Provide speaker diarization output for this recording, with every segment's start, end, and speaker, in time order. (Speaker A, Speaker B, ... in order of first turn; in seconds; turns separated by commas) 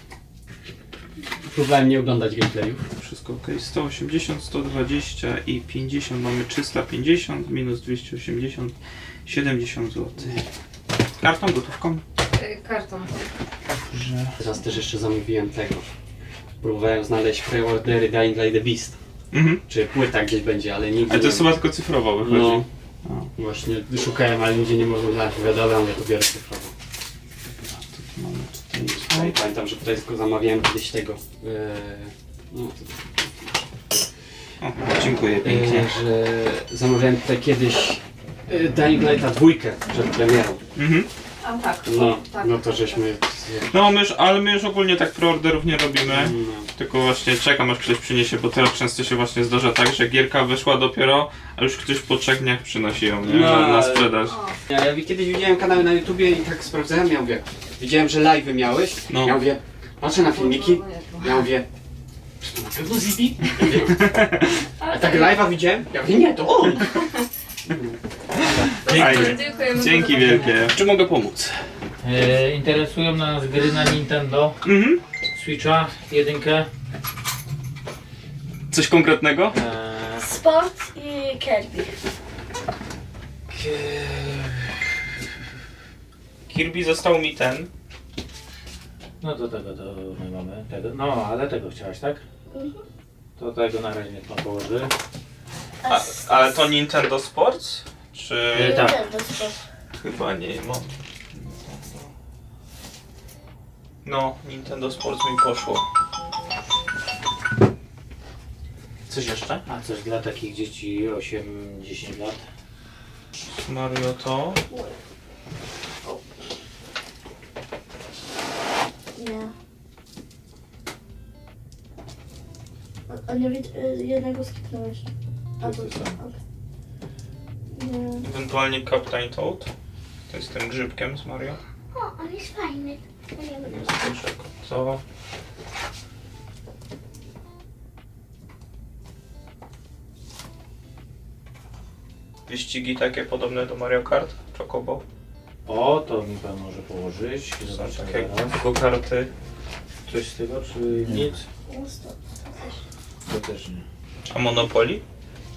Speaker A: 1.4-2.8, Speaker B: 3.0-10.4, Speaker B: 11.2-12.0, Speaker C: 12.3-13.3, Speaker B: 13.7-14.3, Speaker A: 14.4-15.9, Speaker A: 16.6-19.0, Speaker B: 19.3-19.6, Speaker A: 19.7-21.6, Speaker B: 21.1-23.3, Speaker A: 22.2-22.7, Speaker A: 23.4-26.7, Speaker B: 28.0-29.3, Speaker A: 28.8-33.5, Speaker B: 34.6-35.9, Speaker A: 35.4-40.6, Speaker B: 40.8-41.1, Speaker C: 41.4-43.2, Speaker A: 41.8-43.7, Speaker B: 43.7-54.4, Speaker A: 46.0-46.7, Speaker A: 53.2-61.7, Speaker C: 54.3-54.6, Speaker B: 59.1-59.4, Speaker C: 60.1-61.5, Speaker A: 62.4-64.1, Speaker B: 63.9-64.5, Speaker C: 64.8-65.2, Speaker A: 64.8-67.0, Speaker A: 67.7-68.9, Speaker B: 68.5-71.6, Speaker C: 68.7-70.6, Speaker D: 70.2-70.5, Speaker D: 72.0-74.6, Speaker B: 74.6-75.0, Speaker D: 75.3-76.7, Speaker B: 78.7-79.6, Speaker D: 79.5-80.3, Speaker E: 80.2-82.0, Speaker B: 86.5-87.7, Speaker D: 89.2-92.2, Speaker E: 92.5-92.8, Speaker D: 93.4-94.9, Speaker E: 95.8-96.5, Speaker B: 95.9-98.9, Speaker D: 98.5-99.0, Speaker E: 98.5-99.6, Speaker B: 100.0-102.1, Speaker B: 104.0-105.8, Speaker D: 109.1-112.4, Speaker B: 113.5-114.6, Speaker E: 114.7-115.0, Speaker E: 119.2-119.5, Speaker E: 123.1-125.1, Speaker E: 125.6-126.4, Speaker E: 127.7-128.2, Speaker B: 128.2-129.7, Speaker B: 130.3-131.6, Speaker E: 131.9-133.8, Speaker B: 133.6-135.0, Speaker B: 142.5-145.0, Speaker D: 145.7-148.6, Speaker B: 147.6-149.3, Speaker D: 150.1-151.4, Speaker E: 151.7-152.8, Speaker D: 153.3-153.9, Speaker B: 154.3-155.0